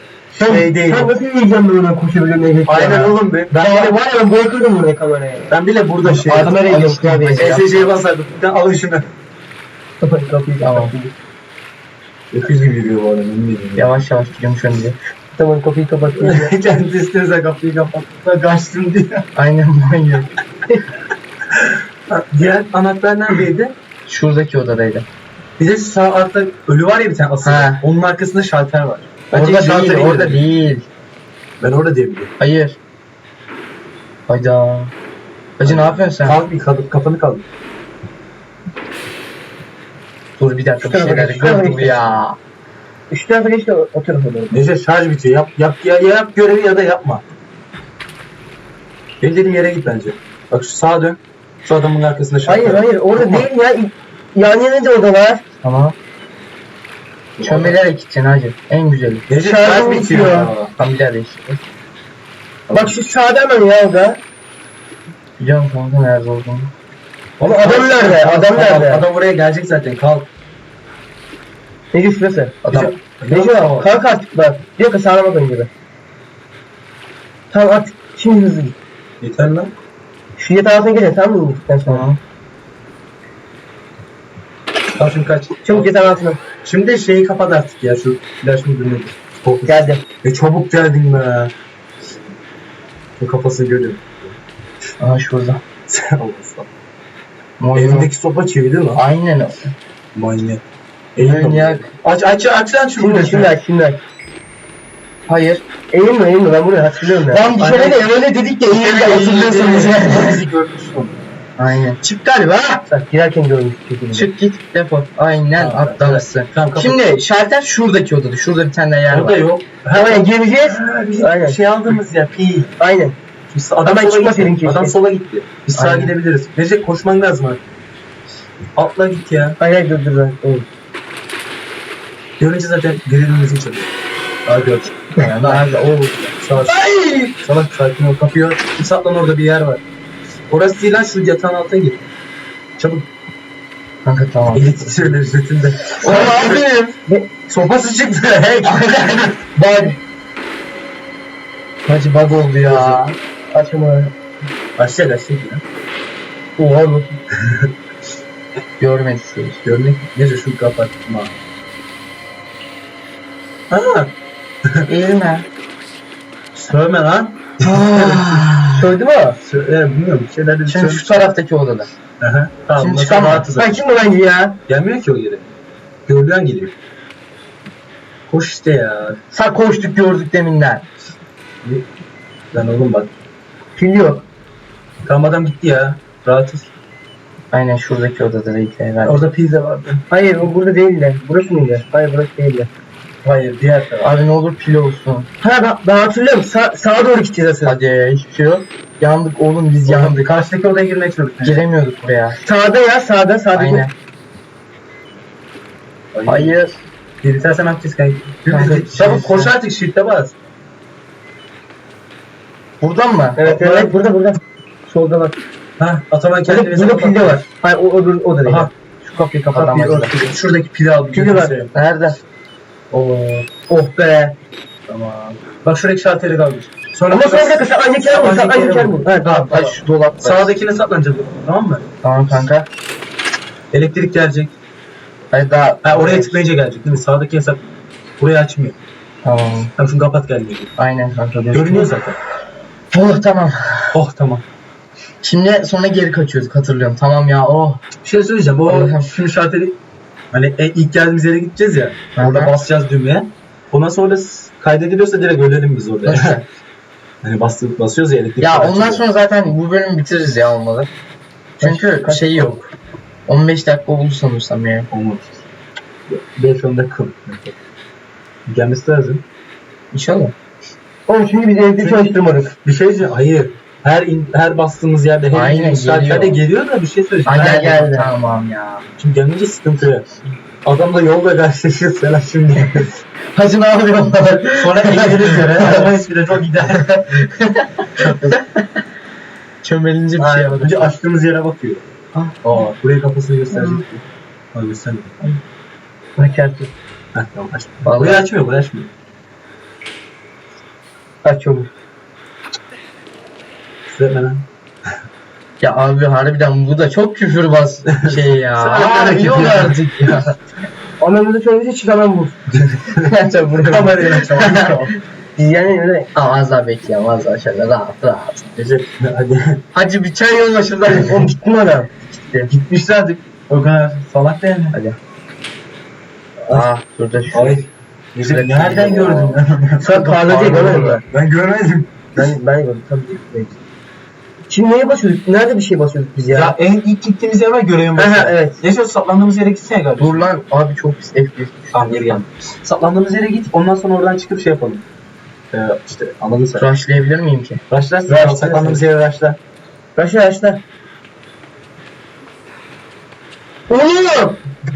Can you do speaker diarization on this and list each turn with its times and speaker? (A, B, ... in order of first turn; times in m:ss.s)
0:00.4-0:01.1 A
0:00.4-0:05.5 B
0:02.7-0:03.9 A
0:05.5-0:06.7 A
0:06.1-0:07.5 B
0:06.1-0:07.9 C
0:07.4-0:09.1 A
0:10.0-0:11.1 B
0:10.6-0:10.9 C
0:12.3-0:14.0 A
0:13.8-0:15.0 C
0:15.3-0:16.5 B
0:16.2-0:19.2 A
0:19.4-0:20.3 C
0:22.1-0:23.7 A
0:24.1-0:25.0 C
0:25.6-0:30.4 A
0:27.4-0:27.8 C
0:29.3-0:30.9 C
0:31.6-0:32.3 A
0:32.4-0:32.8 C
0:34.3-0:34.9 C
0:35.6-0:36.4 C
0:35.6-0:37.4 A
0:40.4-0:42.4 C
0:40.8-0:42.2 B
0:43.1-0:44.6 B
0:44.5-0:47.2 A
0:49.2-0:53.4 A
0:52.4-0:55.4 B
0:55.6-0:56.0 C
0:57.4-0:57.8 A
0:57.4-0:59.3 C
0:59.3-1:00.7 A
0:59.4-1:00.5 B
1:00.8-1:01.6 C
1:02.7-1:02.9 A
1:02.7-1:04.2 B
1:05.4-1:06.7 C
1:07.4-1:10.3 A
1:07.4-1:09.0 B
1:11.9-1:12.6 B
1:12.6-1:12.9 C
1:12.7-1:13.9 A
1:13.3-1:15.7 B
1:17.5-1:18.7 B
1:19.2-1:19.7 A
1:20.4-1:22.0 B
1:21.9-1:22.2 C
1:25.0-1:25.9 A
1:25.6-1:26.4 B
1:26.6-1:31.5 A
1:29.6-1:30.0 B
1:33.2-1:34.4 A
1:35.0-1:35.6 C
1:35.9-1:36.7 A
1:37.6-1:38.1 C
1:37.7-1:39.0 A
1:39.0-1:39.7 C
1:40.1-1:40.6 A
1:41.2-1:43.5 A
1:41.2-1:41.9 C
1:43.0-1:44.0 B
1:45.3-1:45.6 C
1:45.9-1:49.8 B
1:47.3-1:50.4 C
1:49.0-1:51.1 A
1:51.6-1:52.8 C
1:52.9-1:54.3 B
1:54.1-1:59.4 C
1:55.6-1:57.0 A
1:59.1-2:02.7 A
1:59.9-2:01.6 B
2:02.8-2:03.2 B
2:03.5-2:07.6 A
2:03.8-2:04.9 B
2:05.8-2:06.1 C
2:08.8-2:09.6 A
2:09.6-2:10.7 B
2:12.4-2:13.9 A
2:14.5-2:15.7 A
2:15.2-2:17.0 C
2:16.4-2:16.8 A
2:17.4-2:19.8 A
2:20.5-2:22.0 A
2:22.8-2:23.0 A
2:24.0-2:25.0 C
2:24.5-2:26.6 A
2:26.0-2:26.9 C
2:27.5-2:29.4 A
2:28.6-2:29.3 C
2:29.6-2:30.0 B
2:31.9-2:33.0 C
2:32.7-2:33.1 A
2:33.5-2:34.1 B
2:34.8-2:35.6 A
2:36.6-2:37.1 B
2:38.8-2:39.6 C
2:39.6-2:41.3 A
2:43.7-2:44.1 A
2:44.9-2:45.5 C
2:46.6-2:48.4 A
2:47.6-2:48.9 C
2:48.7-2:49.4 B
2:49.4-2:51.3 A
2:50.7-2:51.9 C
2:52.2-2:53.8 A
2:52.8-2:53.5 C
2:53.6-2:54.6 B
2:54.7-2:55.5 A
2:56.1-2:56.7 A
2:58.3-2:59.2 A
2:59.3-3:00.8 C
3:02.5-3:03.1 A
3:03.8-3:04.2 B
3:05.0-3:06.7 A
3:07.5-3:09.2 C
3:09.0-3:10.0 A
3:10.1-3:12.7 B
3:13.2-3:14.1 A
3:14.0-3:15.3 C
3:15.4-3:17.8 B
3:17.6-3:20.3 C
3:19.8-3:21.6 A
3:21.4-3:22.4 C
3:22.4-3:23.9 B
3:23.5-3:23.9 C
3:26.1-3:26.6 A
3:26.2-3:26.8 C
3:27.2-3:30.3 A
3:28.5-3:29.5 C
3:32.8-3:33.5 C
3:33.4-3:35.4 B
3:33.4-3:33.9 A
3:35.8-3:37.4 A
3:36.4-3:38.7 B
3:38.4-3:38.7 A
3:39.0-3:40.1 C
3:39.5-3:41.7 A
3:41.1-3:41.5 B
3:41.7-3:42.2 C
3:43.4-3:44.4 B
3:44.9-3:51.8 A
3:47.1-3:49.6 B
3:49.4-3:50.5 C
3:52.0-3:52.7 C
3:53.7-3:54.5 A
3:55.3-3:56.4 C
3:55.8-3:58.8 A
3:59.2-3:59.7 C
3:59.8-4:00.7 A
4:00.8-4:01.9 C
4:01.5-4:02.2 A
4:02.9-4:04.0 C
4:03.9-4:04.4 A
4:05.2-4:07.8 C
4:08.0-4:09.8 A
4:08.6-4:09.1 C
4:10.3-4:16.4 A
4:12.2-4:12.5 C
4:16.0-4:16.4 C
4:17.2-4:19.0 A
4:18.4-4:20.9 C
4:21.6-4:22.6 B
4:21.6-4:22.7 C
4:23.3-4:24.9 C
4:24.9-4:25.4 A
4:26.1-4:27.6 A
4:28.5-4:29.2 A
4:29.9-4:30.3 C
4:31.1-4:32.5 B
4:31.8-4:37.8 A
4:35.3-4:36.4 C
4:37.2-4:38.9 C
4:37.4-4:38.1 B
4:39.0-4:40.1 A
4:40.6-4:42.9 A
4:43.4-4:45.9 C
4:44.6-4:47.2 A
4:46.8-4:48.7 C
4:48.0-4:48.4 A
4:49.6-4:50.9 C
4:50.2-4:51.8 A
4:52.1-4:52.4 C
4:52.4-4:55.2 A
4:53.5-4:53.8 C
4:56.2-4:56.7 B
4:57.1-4:58.9 A
4:57.8-4:58.3 C
5:01.2-5:01.7 B
5:03.9-5:04.4 A
5:05.6-5:10.4 C
5:07.9-5:09.8 A
5:11.0-5:12.4 B
5:12.5-5:14.9 A
5:13.0-5:14.9 C
5:15.4-5:16.1 B
5:16.1-5:18.6 C
5:18.6-5:19.6 A
5:19.7-5:21.3 C
5:20.8-5:21.9 B
5:22.1-5:22.5 C
5:22.5-5:24.8 A
5:24.7-5:25.0 C
5:26.5-5:27.6 C
5:27.3-5:29.9 A
5:28.2-5:31.0 C
5:29.8-5:31.0 B
5:30.7-5:32.1 A
5:32.1-5:33.6 B
5:34.5-5:36.5 B
5:36.3-5:40.3 A
5:38.0-5:38.6 B
5:40.0-5:42.2 C
5:41.7-5:44.8 A
5:45.5-5:46.7 A
5:46.6-5:47.6 C
5:47.7-5:49.4 A
5:48.0-5:48.8 B
5:50.0-5:50.6 B
5:53.7-5:54.4 B